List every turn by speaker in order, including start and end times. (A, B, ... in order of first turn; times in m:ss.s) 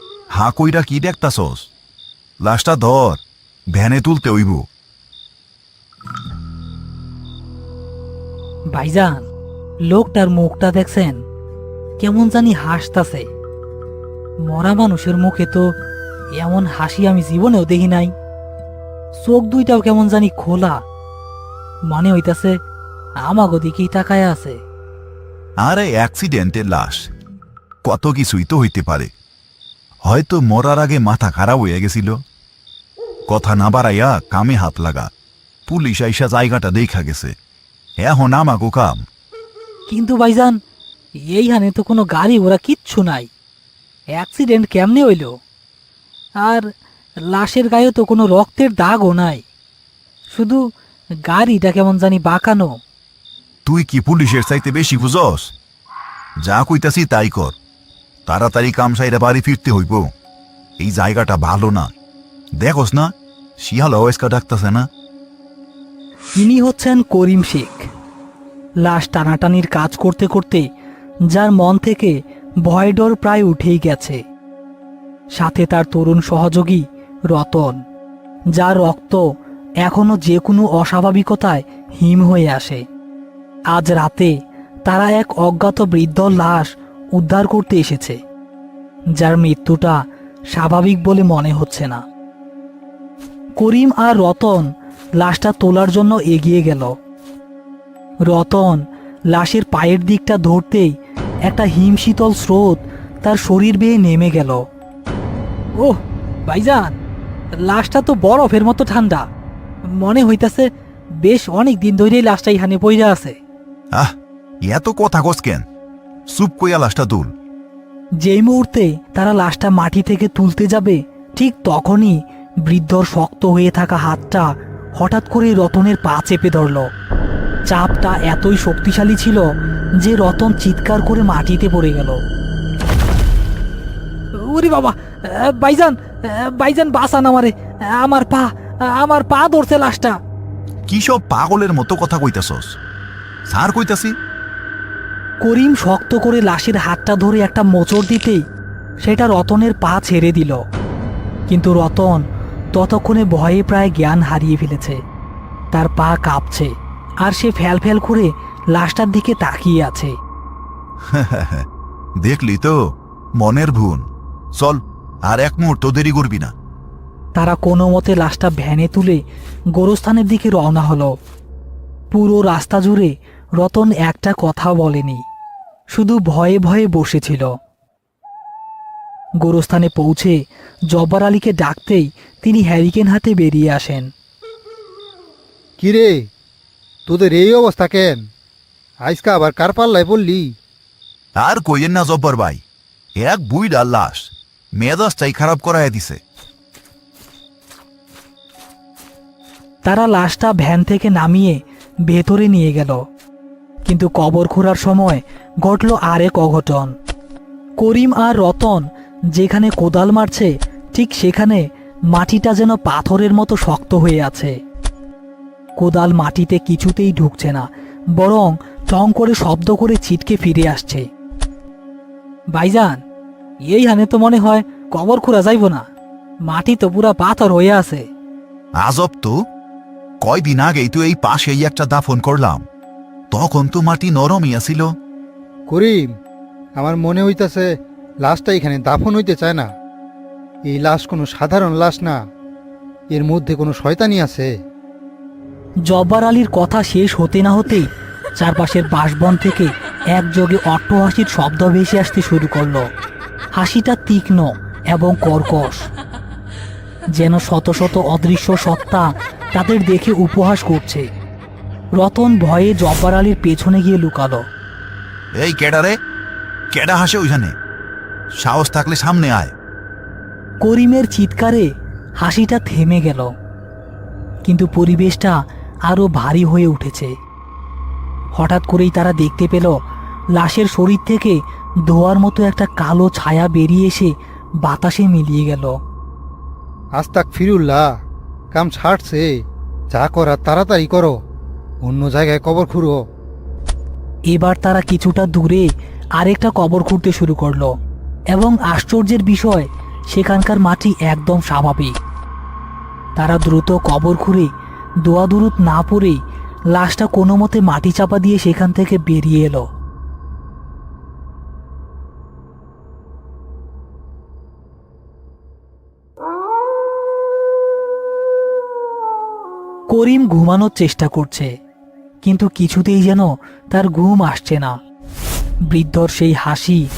0:00.3-0:01.7 A
0:02.4-0:03.2 A
0:03.7-0:04.6 A
0:08.7-0:09.2 B
0:09.9-0:11.2 B
0:12.0-0:13.2 B
0:14.5-0:15.6 B
0:16.4-0:18.1 B
0:19.2-0:20.8 B
0:21.9-0:22.6 B
0:23.2-0:24.6 B
0:25.6-0:27.1 A
0:27.8-0:29.1 A
0:30.0-0:32.2 A
0:33.3-0:35.1 A
0:35.7-0:37.3 A
0:38.0-0:39.0 A
0:39.9-0:40.6 B
0:41.3-0:43.3 B
0:44.1-0:45.3 B
0:47.3-0:49.4 B
0:50.3-0:50.6 B
0:51.3-0:52.7 B
0:53.6-0:55.5 A
0:56.4-0:57.6 A
0:58.3-1:00.0 A
1:00.8-1:01.9 A
1:02.6-1:04.8 A
1:06.4-1:07.8 B
1:08.8-1:10.6 B
1:11.3-1:14.2 B
1:15.4-1:17.8 B
1:18.6-1:19.2 B
1:19.8-1:22.8 B
1:23.7-1:24.3 B
1:24.9-1:28.2 B
1:29.2-1:30.0 B
1:30.5-1:32.0 B
1:33.6-1:34.6 B
1:35.2-1:36.9 B
1:38.3-1:38.8 B
1:39.3-1:40.9 B
1:41.5-1:44.6 B
1:45.8-1:46.9 B
1:47.7-1:49.2 B
1:50.0-1:50.7 B
1:51.2-1:53.3 B
1:54.6-1:55.6 A
1:56.3-1:57.3 A
1:58.2-2:04.5 B
2:05.0-2:06.8 B
2:07.7-2:09.4 B
2:10.0-2:12.2 B
2:14.4-2:20.2 B
2:20.9-2:22.7 A
2:23.5-2:24.1 A
2:25.4-2:28.4 B
2:29.0-2:30.6 B
2:31.5-2:32.2 B
2:32.7-2:35.0 B
2:35.7-2:36.7 B
2:37.2-2:40.1 B
2:41.1-2:41.7 A
2:42.2-2:42.8 A
2:43.4-2:44.0 A
2:44.6-2:46.5 A
2:47.4-2:49.2 B
2:49.8-2:51.1 B
2:52.1-2:55.2 B
2:55.9-2:57.5 B
2:59.4-3:00.4 B
3:00.9-3:04.1 B
3:05.8-3:06.2 C
3:07.1-3:08.2 C
3:09.0-3:10.5 C
3:11.4-3:12.6 A
3:13.2-3:16.2 A
3:19.8-3:21.6 B
3:22.1-3:23.0 B
3:23.8-3:26.9 B
3:27.8-3:28.8 B
3:29.3-3:34.5 B
3:35.8-3:41.0 B
3:42.5-3:43.0 B
3:43.7-3:45.8 B
3:46.5-3:48.0 B
3:48.8-3:49.3 A
3:50.2-3:52.6 A
3:53.3-3:54.9 A
3:55.7-3:56.1 C
3:56.8-3:57.6 C
3:58.2-3:59.7 C
4:00.7-4:02.2 C
4:03.1-4:04.5 C
4:05.9-4:07.9 B
4:08.4-4:12.8 B
4:13.6-4:15.8 B
4:17.1-4:21.0 B
4:22.0-4:24.4 B
4:25.4-4:26.0 A
4:26.7-4:27.5 A
4:28.4-4:29.5 A
4:30.6-4:31.6 B
4:32.2-4:33.3 B
4:34.4-4:35.4 B
4:35.9-4:37.1 B
4:38.4-4:39.7 B
4:40.4-4:44.1 B
4:44.6-4:45.7 B
4:47.0-4:47.8 C
4:48.5-4:49.3 C
4:49.9-4:51.1 C
4:51.8-4:53.0 C
4:54.3-4:55.7 B
4:56.2-4:57.7 B
4:58.3-5:01.9 B
5:03.2-5:04.5 B
5:05.0-5:06.2 B
5:06.7-5:09.6 B
5:19.9-5:21.5 B
5:22.2-5:24.7 B
5:25.7-5:26.8 B